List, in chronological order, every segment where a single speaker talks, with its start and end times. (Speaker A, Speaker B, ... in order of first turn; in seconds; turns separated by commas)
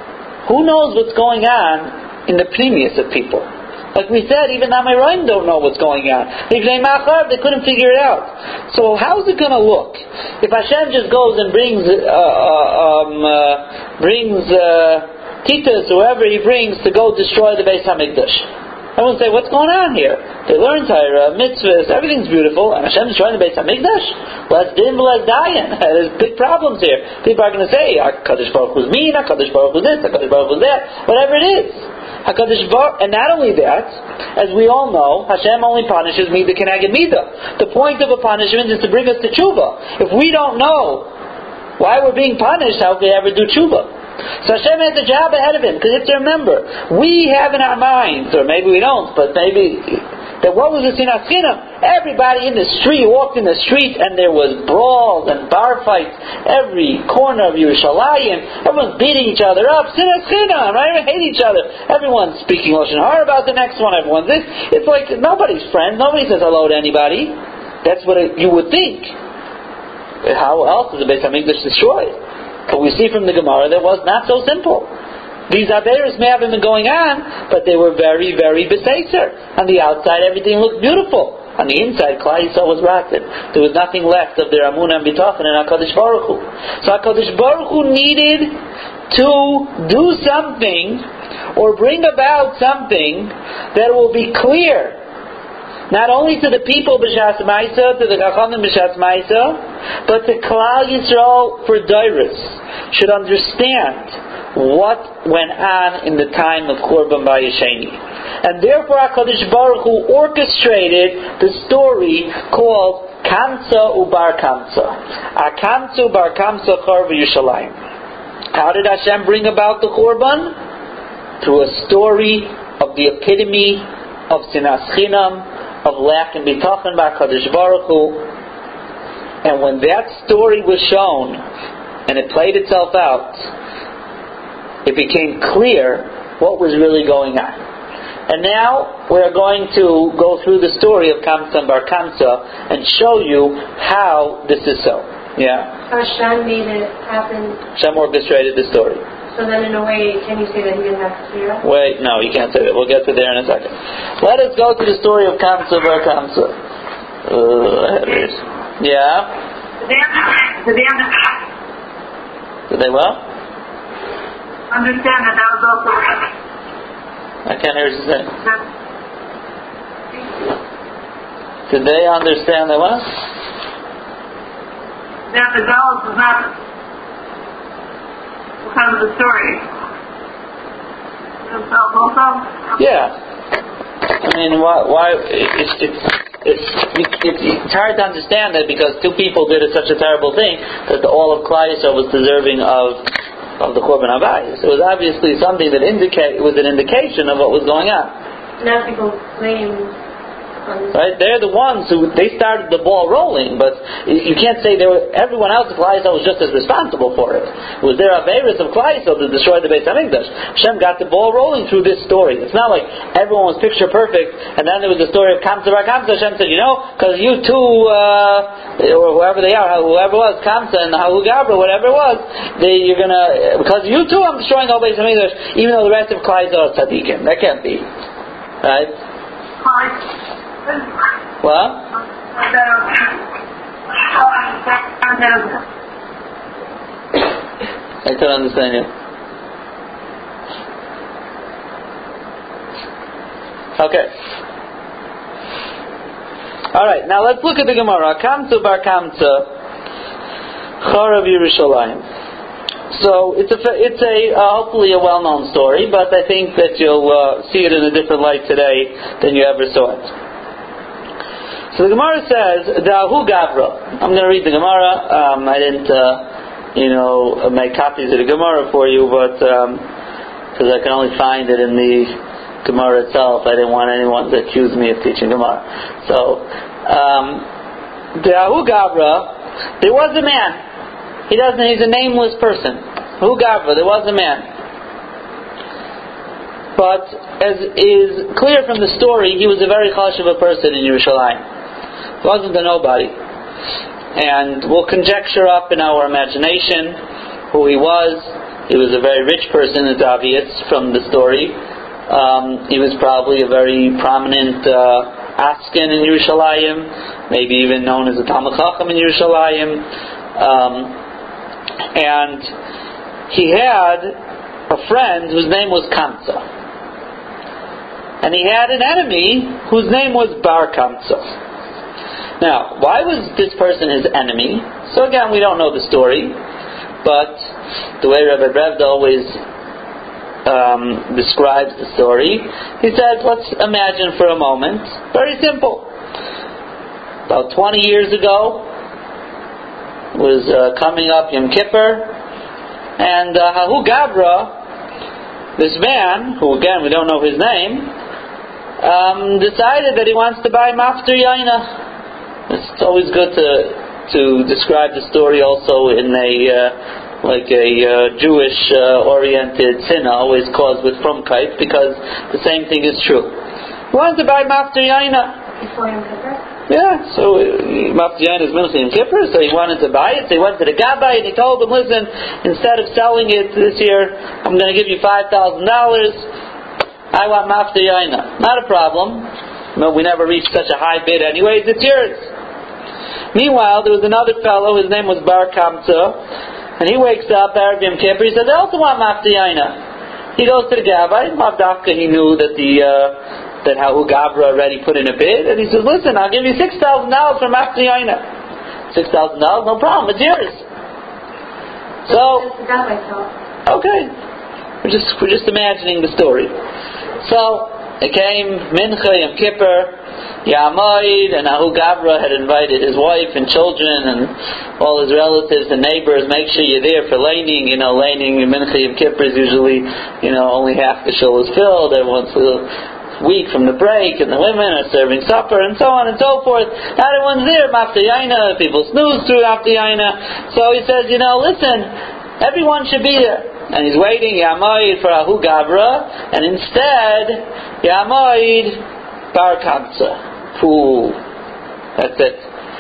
Speaker A: 0.5-41.1, Speaker A: 41.8-43.9, Speaker A: 44.4-69.1, Speaker A: 70.2-72.2, Speaker A: 72.7-74.9, Speaker A: 75.5-88.6, Speaker A: 89.1-91.0, Speaker A: 91.6-95.0, Speaker A: 95.9-117.8, Speaker A: 118.5-120.5, Speaker A: 121.4-128.2, Speaker A: 129.4-131.4, Speaker A: 132.1-133.5, Speaker A: 134.8-137.6, Speaker A: 138.3-145.7, Speaker B: 145.9-147.6, Speaker A: 147.8-149.0, Speaker B: 149.3-151.6, Speaker A: 151.6-156.5, Speaker A: 157.3-159.3, Speaker C: 159.8-161.3, Speaker A: 162.7-163.2, Speaker C: 164.7-166.3, Speaker A: 167.5-168.3, Speaker A: 171.7-173.1, Speaker C: 175.3-176.5, Speaker C: 178.7-179.6, Speaker C: 181.5-182.6, Speaker A: 182.8-183.1, Speaker A: 184.2-193.1, Speaker A: 193.6-198.1, Speaker B: 198.6-199.9, Speaker B: 200.7-200.9, Speaker A: 200.9-227.9, Speaker A: 228.6-228.9, Speaker C: 229.6-230.0, Speaker A: 231.4-231.9, Speaker C: 232.3-233.2, Speaker C: 233.9-235.6, Speaker A: 238.1-238.9, Speaker A: 243.8-244.1, Speaker A: 246.7-249.5, Speaker A: 250.8-252.0, Speaker A: 252.9-260.1, Speaker A: 261.7-269.9, Speaker A: 270.6-277.5, Speaker A: 278.2-280.6, Speaker A: 281.3-284.5, Speaker A: 286.8-291.4, Speaker A: 292.2-293.1, Speaker A: 294.1-297.0, Speaker A: 297.5-301.6, Speaker A: 302.1-309.9, Speaker A: 310.4-311.0, Speaker A: 311.9-312.5, Speaker A: 313.3-314.1, Speaker A: 314.7-316.4, Speaker A: 318.2-321.3, Speaker A: 322.4-326.4, Speaker A: 327.0-327.5, Speaker A: 328.0-329.4, Speaker A: 330.5-335.9, Speaker A: 337.3-338.7, Speaker A: 340.1-342.1, Speaker A: 343.0-344.5, Speaker A: 345.6-347.9, Speaker A: 348.8-351.7, Speaker A: 352.5-363.4, Speaker A: 363.9-365.4, Speaker B: 365.6-366.4, Speaker A: 366.7-376.3, Speaker A: 377.1-382.3, Speaker A: 383.3-386.2, Speaker A: 386.8-389.8, Speaker A: 390.4-398.2, Speaker A: 398.9-400.6, Speaker B: 402.1-403.3, Speaker A: 402.1-402.5, Speaker A: 403.7-404.1, Speaker A: 404.8-406.5, Speaker A: 407.2-409.9, Speaker A: 410.4-438.8, Speaker A: 439.3-441.2, Speaker A: 442.0-442.5